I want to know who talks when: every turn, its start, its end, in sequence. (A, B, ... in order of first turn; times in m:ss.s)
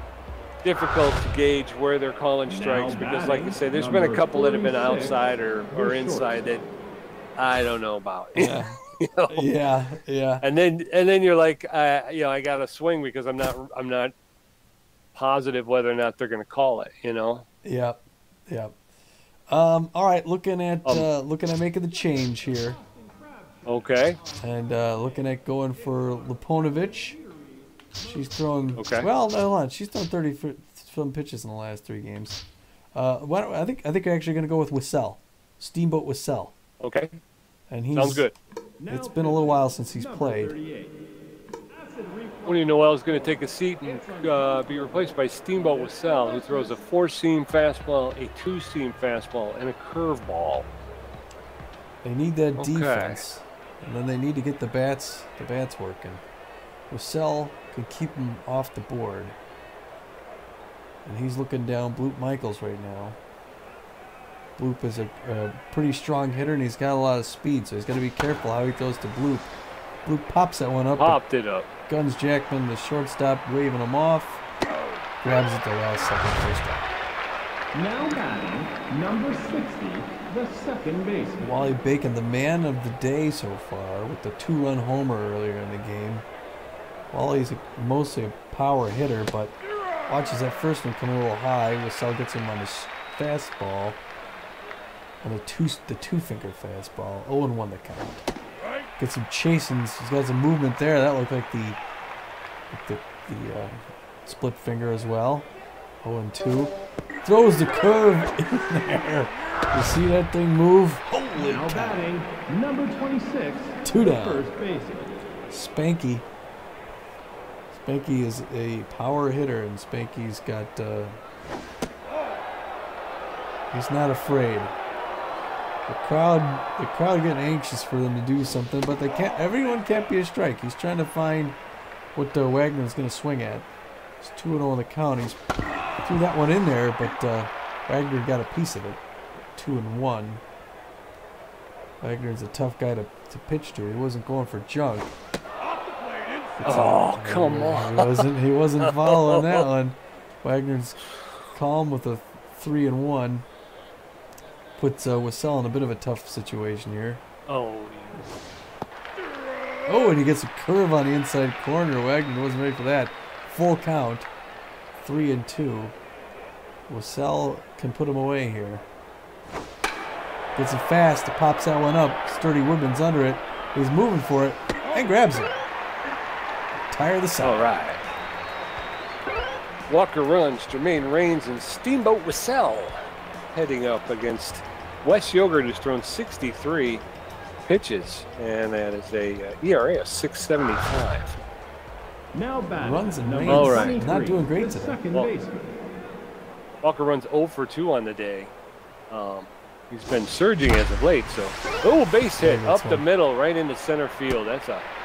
0:00.6-0:06.6 A
0:02.5-0:05.2 B
0:05.7-0:06.6 B
0:07.4-0:09.5 A
0:08.3-0:08.8 C
0:09.3-0:10.4 C
0:10.4-0:14.1 A
0:15.1-0:17.4 A
0:17.6-0:18.8 C
0:19.5-0:22.8 C
0:22.3-0:24.4 B
0:23.6-0:24.2 A
0:24.4-0:27.2 C
0:25.8-0:28.8 B
0:28.0-0:32.4 C
0:28.8-0:29.1 A
0:32.9-0:36.5 C
0:36.8-0:37.2 A
0:37.7-0:38.2 C
0:37.9-0:38.4 A
0:38.8-0:41.1 B
0:38.9-0:40.5 C
0:41.7-0:46.8 B
0:42.4-0:50.7 A
0:52.0-0:56.2 C
0:52.6-0:53.2 A
0:56.9-0:59.4 C
1:01.0-1:03.2 C
1:04.6-1:09.5 C
1:10.0-1:11.2 C
1:11.0-1:11.7 A
1:11.9-1:14.4 C
1:15.2-1:16.9 C
1:17.7-1:21.7 B
1:21.4-1:26.2 C
1:27.1-1:29.6 C
1:30.1-1:34.0 C
1:35.2-1:38.3 C
1:39.0-1:41.8 C
1:42.7-1:45.5 C
1:46.0-1:52.0 C
1:51.3-1:55.1 B
1:53.8-1:54.5 C
1:55.5-1:56.2 C
1:57.7-2:01.1 C
2:03.7-2:04.7 C
2:05.8-2:11.6 C
2:12.1-2:13.7 C
2:14.2-2:15.4 C
2:16.0-2:19.0 C
2:19.5-2:20.4 C
2:22.0-2:25.1 C
2:26.6-2:33.5 C
2:26.6-2:28.3 A
2:28.8-2:29.6 A
2:34.8-2:37.2 C
2:37.5-2:38.3 A
2:39.9-2:44.3 C
2:45.0-2:46.0 C
2:46.9-2:48.8 C
2:50.5-2:55.6 C
2:56.8-2:57.6 C
2:57.4-2:58.0 A
2:59.9-3:03.0 A
3:03.5-3:07.0 A
3:07.6-3:11.4 A
3:12.3-3:15.8 B
3:12.8-3:15.0 C
3:13.5-3:14.0 A
3:16.8-3:18.5 A
3:19.1-3:24.8 A
3:22.4-3:23.0 C